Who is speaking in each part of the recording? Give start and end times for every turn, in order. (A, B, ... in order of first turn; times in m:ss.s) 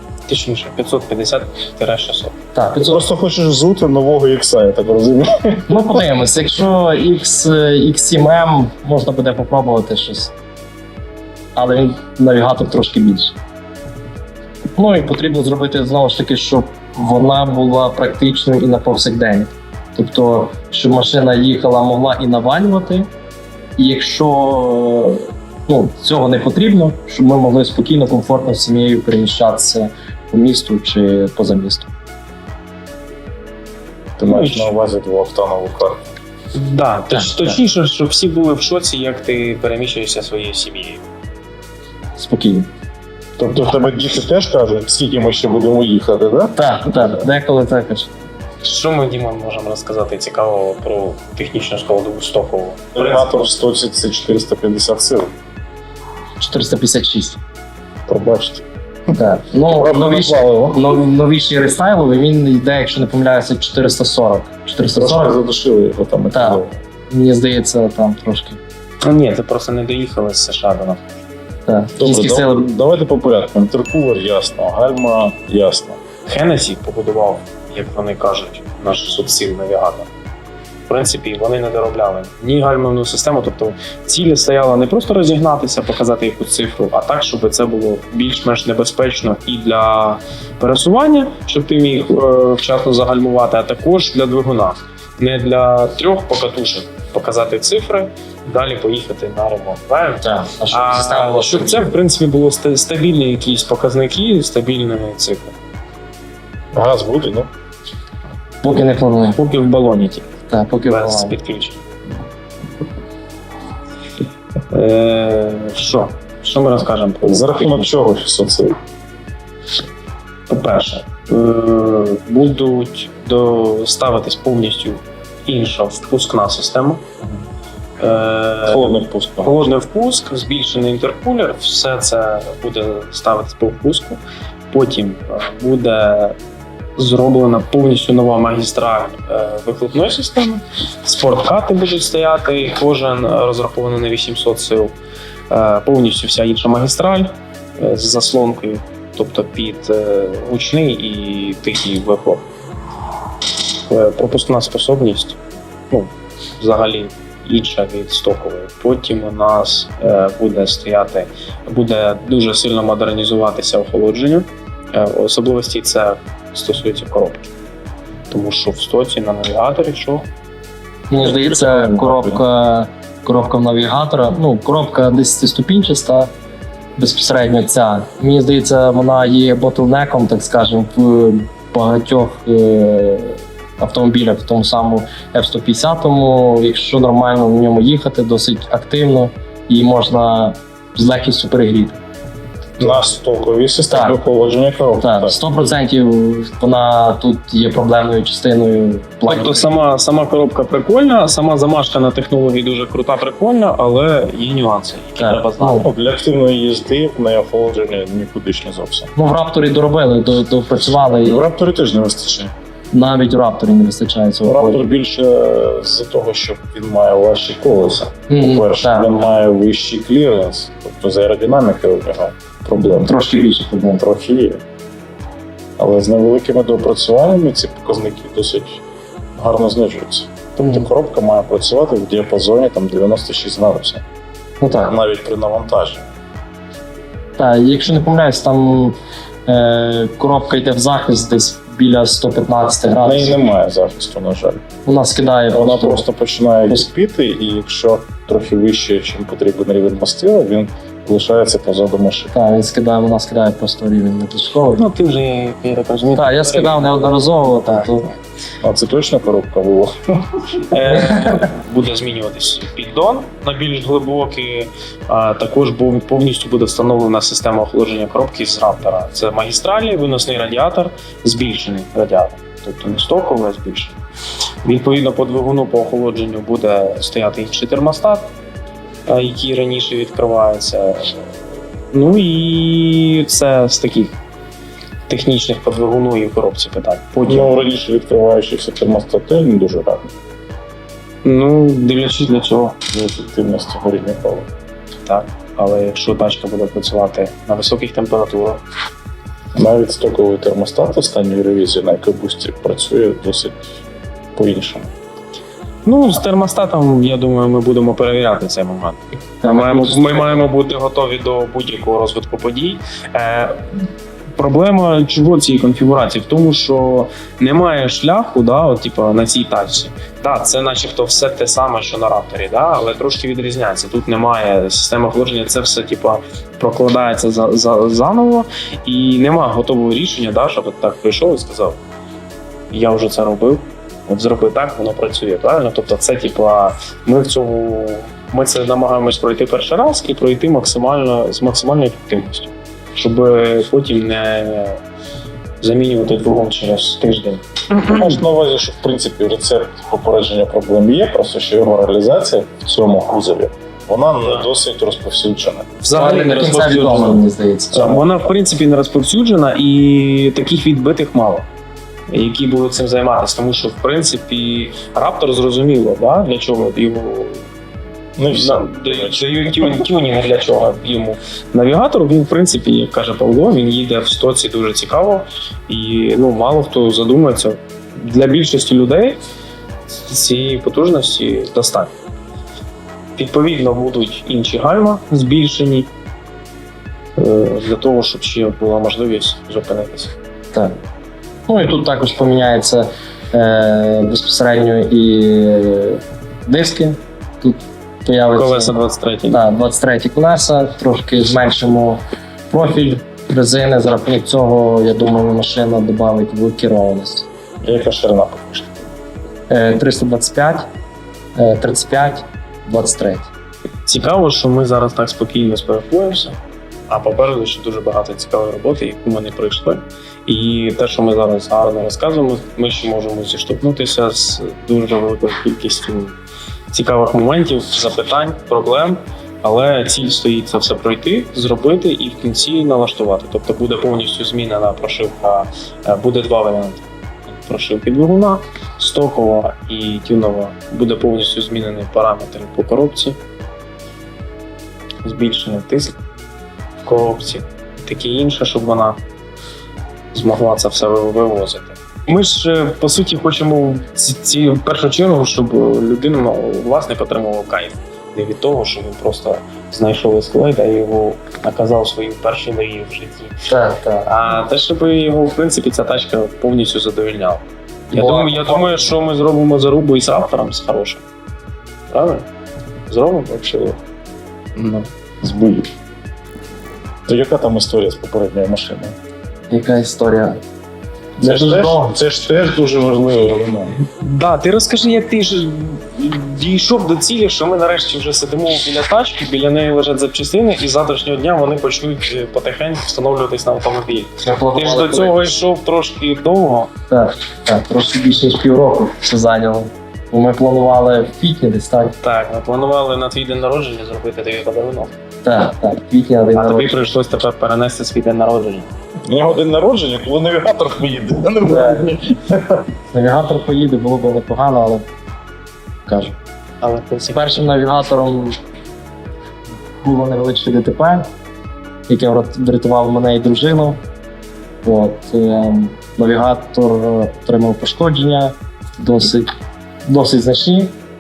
0:00.3-0:02.3 A
0:02.5-0:03.0 B
0:02.8-0:06.0 C
0:05.7-0:10.3 B
0:11.6-0:13.4 B
0:14.8-0:23.1 B
0:23.8-0:31.9 B
0:34.2-0:36.1 C
0:34.2-0:34.7 A
0:36.5-0:41.0 A
0:37.1-0:37.6 B
0:42.2-0:42.7 B
0:43.4-0:46.6 C
0:46.6-0:48.1 B
0:48.6-0:53.5 A
0:53.0-0:55.3 C
0:56.4-0:57.4 B
0:58.1-0:58.6 C
0:59.2-1:05.4 B
0:59.7-1:00.9 C
1:04.9-1:06.8 C
1:06.3-1:08.6 B
1:09.0-1:11.2 A
1:11.7-1:12.7 B
1:12.0-1:16.0 C
1:16.3-1:20.1 A
1:20.9-1:45.6 A
1:40.2-1:41.9 B
1:46.7-1:47.5 C
1:48.6-1:49.4 B
1:49.4-1:50.3 A
1:50.5-1:51.4 B
1:50.9-1:51.8 A
1:54.7-1:57.9 A
1:57.2-1:58.8 C
2:00.5-2:07.0 A
2:08.0-2:08.9 A
2:08.7-2:09.7 C
2:09.4-2:16.4 A
2:17.0-2:25.0 A
2:25.5-2:32.5 A
2:33.9-2:35.4 A
2:35.9-2:47.5 A
2:48.3-2:50.3 A
2:51.1-2:56.3 B
2:51.2-2:52.4 C
2:57.0-3:12.0 B
3:12.8-3:13.1 A
3:12.8-3:15.4 C
3:13.9-3:14.2 B
3:15.0-3:19.7 B
3:19.3-3:25.9 A
3:25.2-3:25.9 B
3:25.8-3:29.1 C
3:29.2-3:31.4 B
3:31.1-3:32.5 C
3:32.9-3:34.8 B
3:34.4-3:43.2 C
3:38.3-3:39.1 B
3:43.0-3:44.0 B
3:44.0-3:44.6 C
3:45.8-3:48.8 C
3:49.4-3:54.0 C
3:50.6-3:50.9 B
3:54.6-3:54.9 B
3:54.9-3:56.1 C
3:57.4-4:03.4 B
4:03.0-4:04.6 C
4:04.8-4:06.0 B
4:05.5-4:12.3 C
4:12.3-4:14.8 B
4:14.8-4:18.1 A
4:16.2-4:18.1 B
4:18.6-4:20.4 C
4:20.7-4:34.0 A
4:21.0-4:21.4 B
4:34.6-4:38.3 A
4:39.1-4:41.4 A
4:41.9-4:44.2 A
4:45.1-4:47.5 A
4:47.2-4:50.1 C
4:51.2-4:52.8 A
4:52.9-4:54.5 C
4:55.1-4:58.6 A
4:59.6-5:03.7 C
5:04.4-5:04.9 C
5:05.8-5:13.7 A
5:09.4-5:10.4 B
5:14.3-5:31.8 A
5:32.7-5:44.8 A
5:45.6-5:48.2 A
5:47.8-5:55.7 C
5:55.8-5:57.2 A
5:55.9-5:58.0 B
5:57.7-6:01.5 A
6:02.1-6:07.5 A
6:08.2-6:09.8 C
6:08.3-6:19.2 A
6:20.1-6:21.9 A
6:23.2-6:25.9 A
6:27.2-6:30.2 A
6:31.5-6:38.7 B
6:38.3-6:39.4 A
6:39.3-6:47.3 B
6:47.6-6:48.8 C
6:49.5-6:50.7 B
6:51.4-6:53.3 B
6:53.9-6:56.4 A
6:56.9-7:06.2 A
7:06.7-7:23.2 A
7:25.0-7:26.0 A
7:26.8-7:29.0 A
7:30.1-7:43.3 A
7:43.5-7:44.1 B
7:44.0-7:51.0 A
7:47.9-7:48.8 B
7:51.9-7:52.3 A
7:52.9-7:53.8 A
7:54.6-7:54.9 A
7:55.2-7:55.7 C
7:57.1-7:59.0 C
7:59.5-8:00.4 B
8:01.2-8:03.8 C
8:01.2-8:02.0 B
8:03.9-8:16.7 A
8:14.2-8:15.2 B
8:16.9-8:22.0 B
8:22.0-8:24.9 A
8:25.2-8:26.9 B
8:26.3-8:28.7 A
8:29.1-8:32.6 C
8:31.5-8:31.9 B
8:32.9-8:34.8 B
8:35.9-8:36.2 B
8:36.6-8:37.4 A
8:37.1-8:38.4 B
8:39.8-8:41.1 B
8:41.9-8:43.8 B
8:44.6-8:49.3 B
8:49.8-8:50.8 B